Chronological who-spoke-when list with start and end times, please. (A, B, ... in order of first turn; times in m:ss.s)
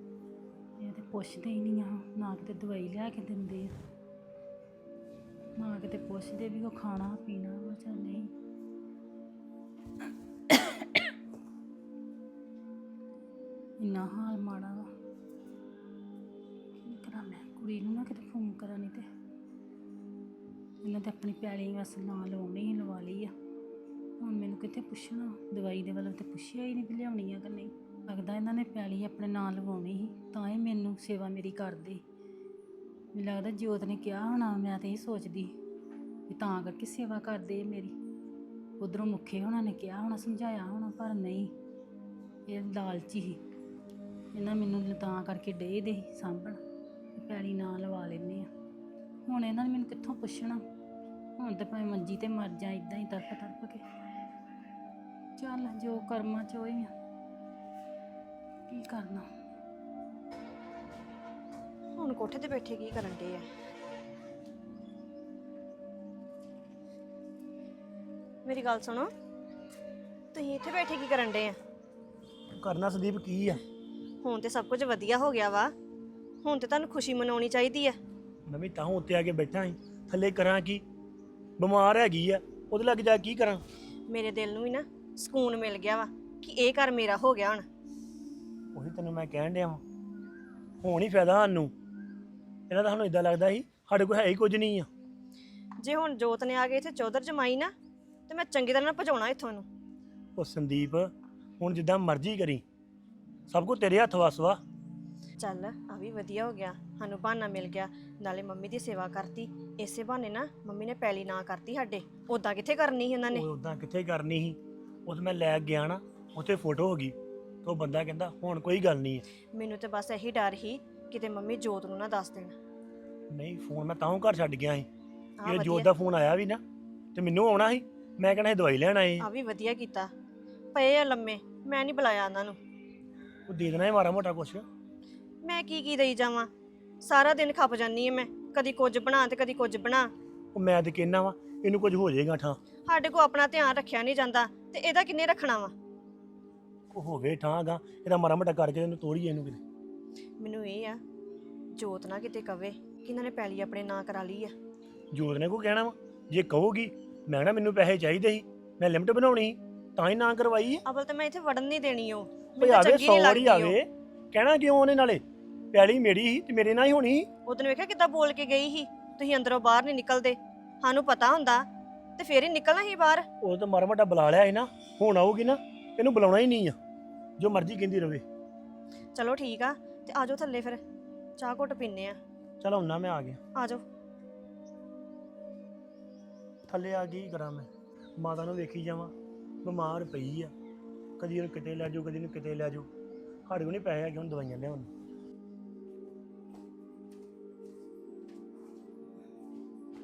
0:00.8-0:03.7 A
0:05.6-0:08.3 A
0:10.5-0:11.0 A
0:13.8-0:14.9 A
0:16.8-0:19.0 A
0:20.8-0:23.3 A
0:24.2-0:32.0 A
0:33.1-0:35.5 A
0:36.3-0:37.9 A
0:38.8-0:41.5 A
0:42.5-0:43.4 A
0:44.3-0:46.6 A
0:47.2-0:48.5 A
0:49.3-0:50.6 A
0:51.4-0:53.8 A
0:55.4-0:56.9 A
0:58.7-0:59.2 A
1:02.0-1:03.4 B
1:08.4-1:09.1 B
1:10.3-1:11.6 B
1:12.6-1:13.6 C
1:14.2-1:15.7 B
1:16.4-1:18.0 B
1:18.5-1:20.8 C
1:21.6-1:23.6 C
1:24.1-1:27.6 B
1:28.7-1:29.8 C
1:30.8-1:31.7 C
1:32.7-1:34.9 C
1:35.8-1:37.7 B
1:38.3-1:39.6 B
1:40.4-1:42.6 C
1:43.5-1:44.6 C
1:45.4-1:53.5 B
1:53.3-1:59.2 C
1:59.5-2:02.5 B
2:03.3-2:04.9 C
2:05.4-2:05.9 B
2:05.4-2:06.6 C
2:07.1-2:09.3 C
2:09.2-2:10.1 B
2:10.7-2:12.6 B
2:13.5-2:14.6 C
2:15.4-2:16.5 B
2:17.0-2:20.1 B
2:20.5-2:22.6 C
2:22.9-2:25.7 B
2:26.9-2:29.6 C
2:30.4-2:31.0 B
2:31.8-2:34.5 B
2:35.1-2:40.8 C
2:40.9-2:43.8 B
2:42.6-2:45.2 C
2:45.7-2:47.3 C
2:47.5-2:51.6 B
2:52.2-2:53.2 B
2:53.4-2:56.8 C
2:57.4-2:58.2 C
2:59.1-3:00.8 B
3:01.4-3:02.2 B
3:02.6-3:03.4 C
3:03.5-3:03.8 B
3:06.7-3:09.1 C
3:09.6-3:10.5 C
3:11.2-3:12.9 C
3:13.5-3:14.9 C